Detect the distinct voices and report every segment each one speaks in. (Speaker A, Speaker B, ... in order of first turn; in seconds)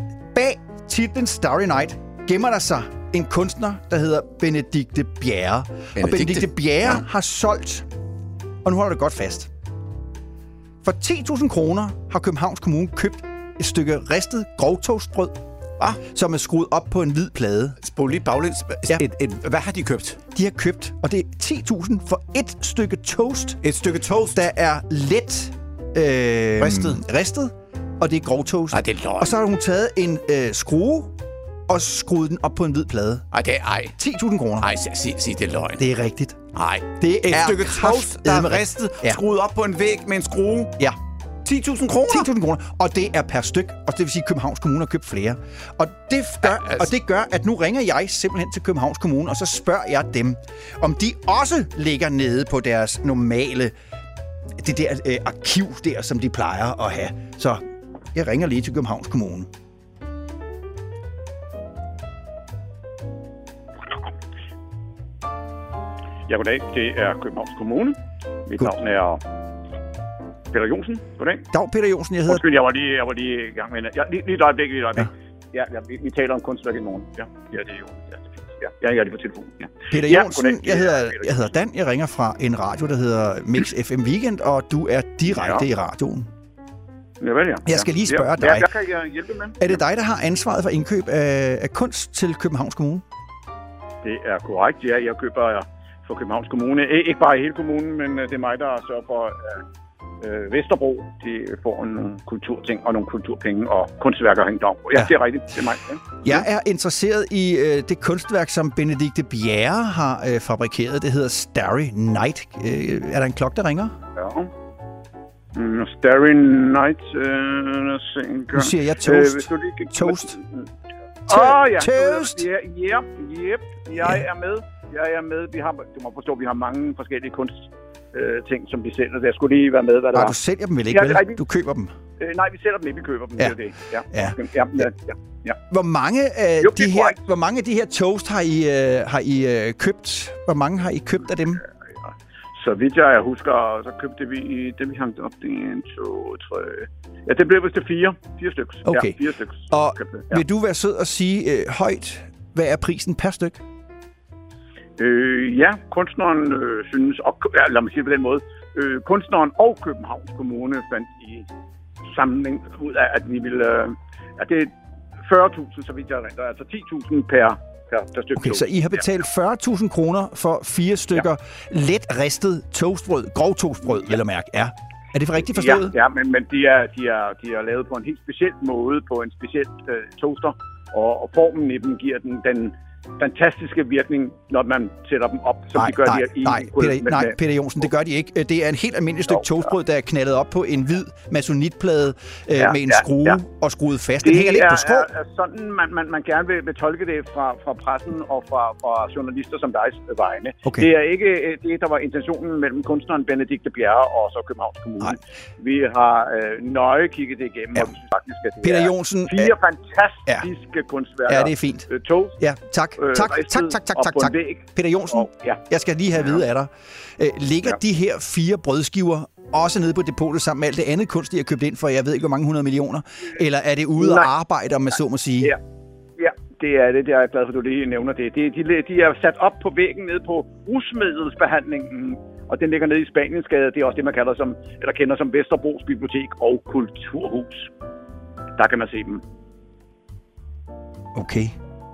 Speaker A: 0.3-7.8, 8.6-9.5, 10.8-15.4, 16.1-17.8, 20.3-23.6, 24.3-31.1, 31.7-33.3, 34.0-34.7, 35.8-36.4, 37.0-39.2, 42.1-53.7, 54.6-57.6, 58.1-59.5, 71.5-72.5, 79.9-86.3, 87.7-88.7, 89.6-93.0, 106.2-114.0, 118.5-120.4, 121.3-122.5, 124.0-124.2, 130.1-131.9, 134.1-134.9, 135.7-141.6, 148.9-149.2, 149.7-153.6, 168.4-175.9, 185.8-195.1, 208.6-209.6, 211.3-225.5, 241.1-241.6
Speaker B: 6.0-7.0, 17.8-20.2, 23.6-24.4, 26.6-27.0, 28.7-29.4, 33.3-34.0, 34.6-35.8, 36.5-40.7, 41.4-42.3, 46.4-46.9
Speaker C: 66.3-69.2, 70.5-71.5, 72.3-81.4, 85.3-85.6, 87.2-89.8, 94.0-99.6, 100.2-106.5, 114.1-114.5, 115.5-120.7, 121.3-130.4, 130.9-131.4, 132.2-135.6, 136.6-137.2, 142.1-150.4, 155.0-161.4, 162.1-169.0, 175.4-187.4, 192.6-193.4, 194.2-212.4, 213.0-215.6, 216.2-216.4, 224.0-224.3, 226.2-237.7, 238.6-239.2